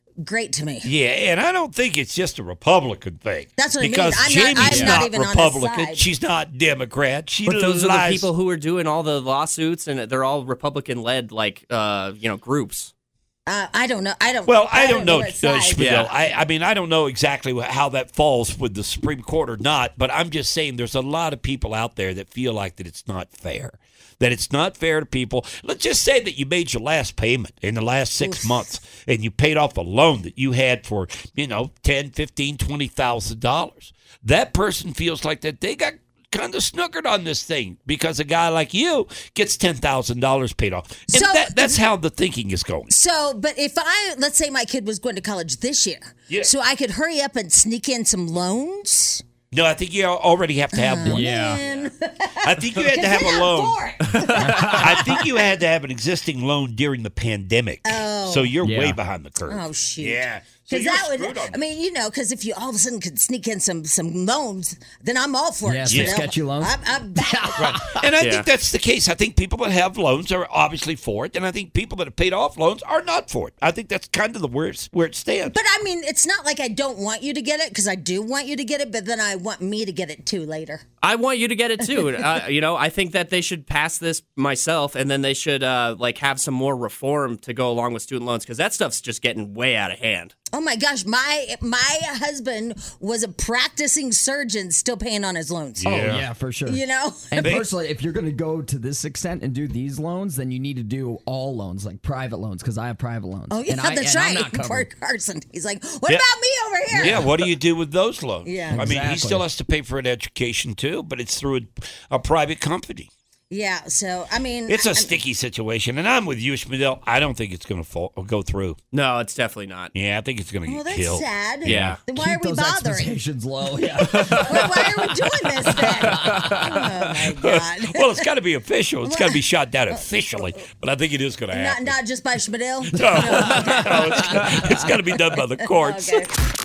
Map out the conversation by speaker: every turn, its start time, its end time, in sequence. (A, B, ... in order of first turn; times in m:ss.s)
0:00.2-0:00.9 A
0:00.8-0:08.3 B
0:03.5-0:06.1 A
0:04.6-0:05.1 C
0:07.4-0:12.9 C
0:13.4-0:15.8 A
0:14.4-0:42.9 B
0:15.7-0:16.1 C
0:28.2-0:28.6 A
0:41.1-0:41.9 A
0:42.9-0:49.2 A
0:49.5-0:51.8 B
0:50.7-0:55.4 A
0:51.0-0:51.6 D
0:52.4-1:01.6 B
0:54.1-0:54.8 D
0:57.8-0:58.7 A
0:58.6-0:59.0 D
0:59.4-1:07.9 A
1:05.6-1:08.0 D
1:05.9-1:06.2 B
1:07.6-1:15.6 B
1:08.2-1:08.5 C
1:15.5-1:20.8 A
1:21.0-1:30.3 C
1:30.5-1:36.1 A
1:35.8-1:36.3 B
1:35.8-1:44.9 D
1:36.6-1:37.6 A
1:37.4-1:37.7 B
1:43.5-1:47.4 A
1:46.9-1:53.1 B
1:48.4-1:48.9 A
1:48.7-1:49.5 D
1:53.5-1:55.2 A
1:54.7-1:58.8 B
1:58.9-1:59.9 C
1:59.9-2:01.7 B
2:00.6-2:03.2 A
2:01.6-2:02.0 C
2:01.6-2:05.1 D
2:04.0-2:04.8 B
2:04.2-2:08.3 A
2:05.6-2:06.8 D
2:06.1-2:11.9 B
2:09.0-2:10.6 A
2:11.5-2:16.3 A
2:12.9-2:16.3 B